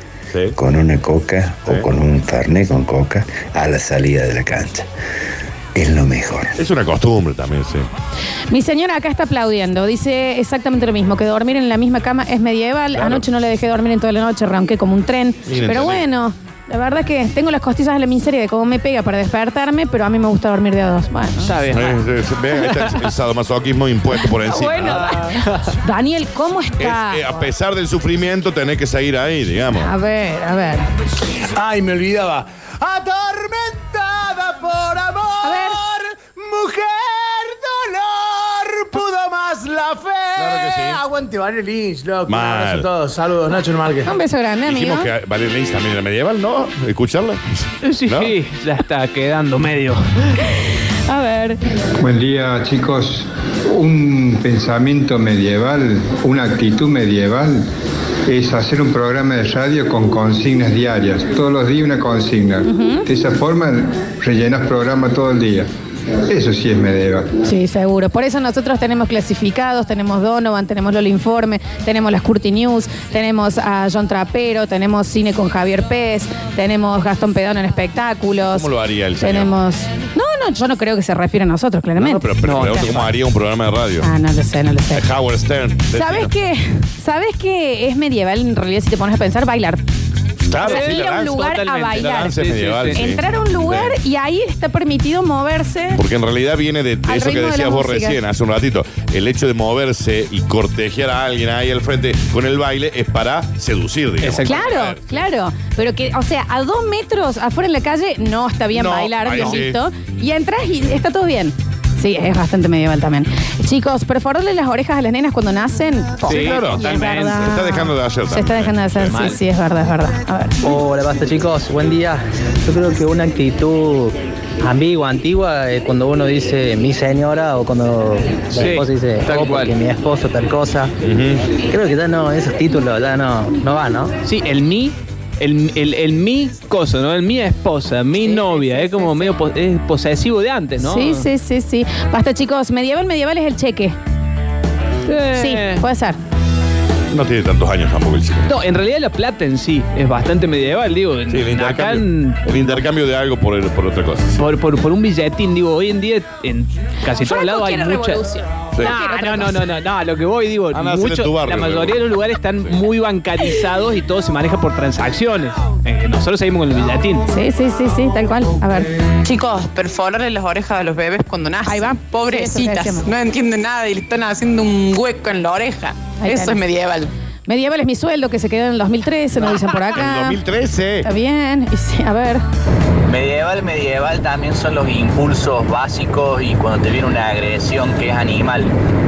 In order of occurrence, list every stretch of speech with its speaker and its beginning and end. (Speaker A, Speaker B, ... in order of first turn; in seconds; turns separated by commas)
Speaker A: 0.3-0.6, Speaker B: 0.6-4.9, Speaker B: 5.7-6.6, Speaker A: 6.5-7.9, Speaker C: 8.5-21.7, Speaker A: 12.9-13.2, Speaker A: 15.5-16.0, Speaker D: 21.4-22.0, Speaker A: 21.7-25.2, Speaker C: 24.2-27.5, Speaker D: 25.4-25.7, Speaker A: 26.8-29.9, Speaker C: 29.8-30.8, Speaker E: 31.5-44.1, Speaker C: 35.4-35.8, Speaker A: 40.4-41.0, Speaker A: 42.3-42.9, Speaker C: 44.0-45.1, Speaker A: 44.7-48.3, Speaker D: 47.8-50.4, Speaker C: 51.1-51.6, Speaker F: 52.0-57.7, Speaker F: 58.2-65.7, Speaker C: 62.6-63.0, Speaker F: 66.3-67.3, Speaker C: 67.4-78.7, Speaker A: 78.4-79.5, Speaker C: 79.2-82.8, Speaker A: 82.0-84.1, Speaker D: 82.4-83.1, Speaker C: 84.0-85.1, Speaker A: 84.9-86.3, Speaker C: 85.9-89.8, Speaker A: 90.4-94.0, Speaker D: 90.5-93.0, Speaker C: 90.6-92.4, Speaker C: 92.9-96.0, Speaker A: 95.9-105.2, Speaker C: 97.0-98.2, Speaker D: 104.2-104.6, Speaker C: 104.4-120.5, Speaker A: 108.7-109.8, Speaker D: 116.2-117.6, Speaker A: 116.3-119.3, Speaker D: 119.1-119.4, Speaker G: 120.6-130.9, Speaker D: 128.5-129.7, Speaker A: 131.0-131.4, Speaker G: 131.6-134.2, Speaker D: 134.2-141.3, Speaker C: 138.2-139.3, Speaker C: 140.8-143.9, Speaker D: 145.1-145.8, Speaker C: 145.3-146.2, Speaker A: 147.1-148.5, Speaker D: 148.5-152.8, Speaker A: 151.3-154.3, Speaker D: 154.3-158.2, Speaker C: 157.2-159.6, Speaker D: 158.8-167.3, Speaker A: 160.7-162.0, Speaker C: 167.3-168.9, Speaker H: 169.2-177.1, Speaker C: 171.7-173.1, Speaker C: 176.2-176.6, Speaker C: 177.5-180.4, Speaker A: 179.9-181.1, Speaker C: 181.0-182.4, Speaker I: 183.1-188.7